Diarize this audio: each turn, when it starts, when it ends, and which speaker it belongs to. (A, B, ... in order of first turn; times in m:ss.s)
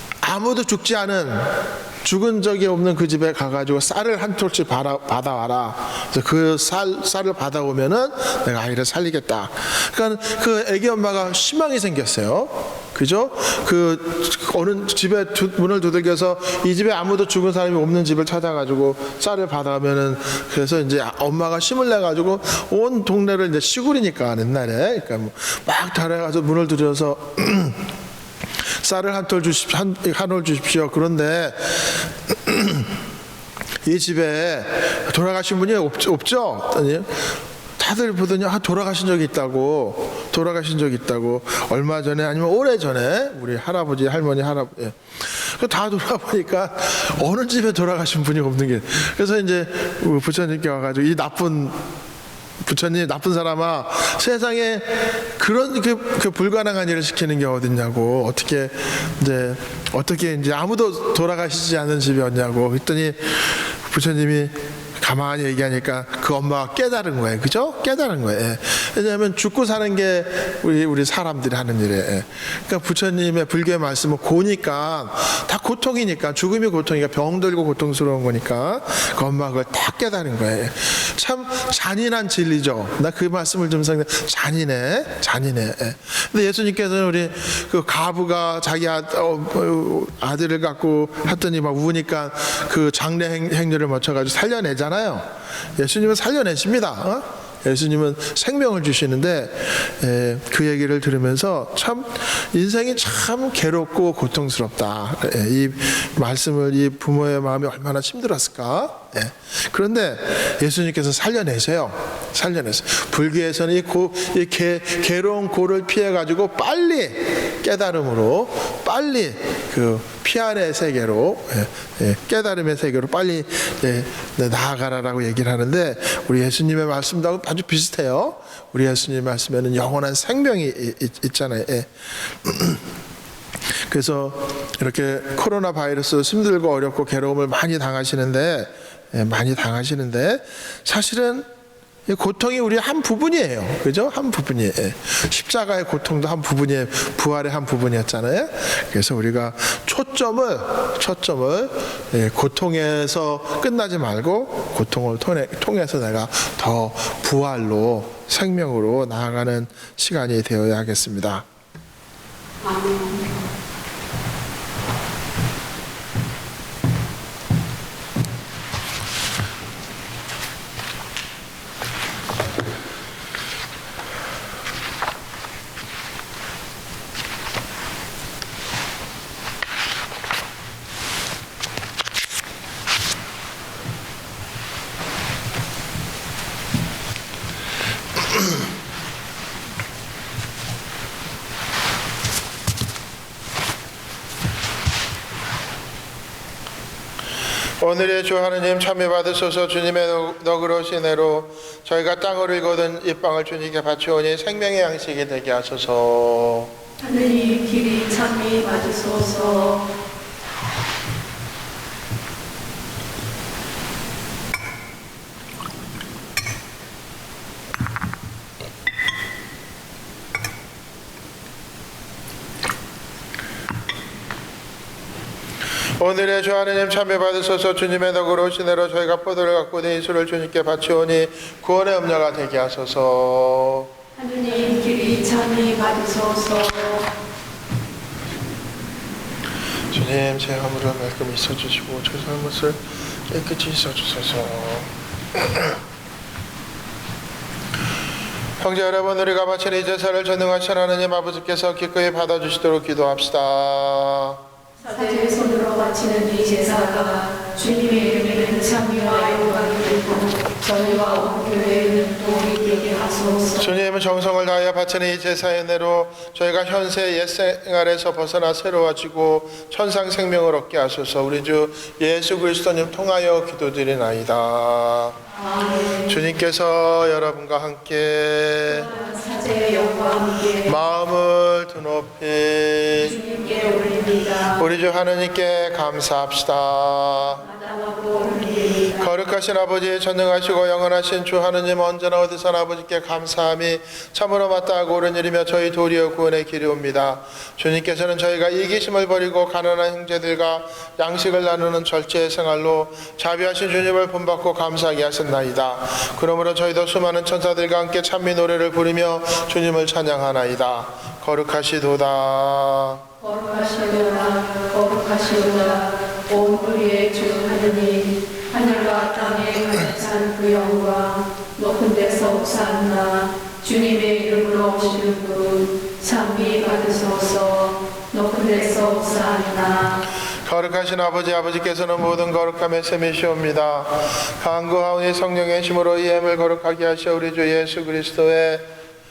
0:00.2-0:27.9 A
0:28.7-0:33.0 A
0:33.8-0:51.8 A
0:52.6-2:12.8 A
2:13.8-2:21.5 A
2:22.1-2:41.5 A
2:42.6-2:43.4 B
3:17.8-3:26.7 A
3:27.0-3:30.0 B
3:46.0-3:53.9 A
3:54.2-3:57.1 B
3:59.9-4:05.8 A
4:08.6-4:14.4 A
4:14.8-4:23.8 B
4:23.6-4:35.2 A
4:35.3-4:36.2 B
4:36.1-4:38.9 A
4:38.7-4:40.8 B
4:40.6-4:43.2 A
4:43.0-4:44.7 B
4:44.5-4:47.4 A
4:47.4-4:49.1 B
4:49.0-5:13.0 A
5:13.2-5:30.1 B
5:30.4-5:38.7 A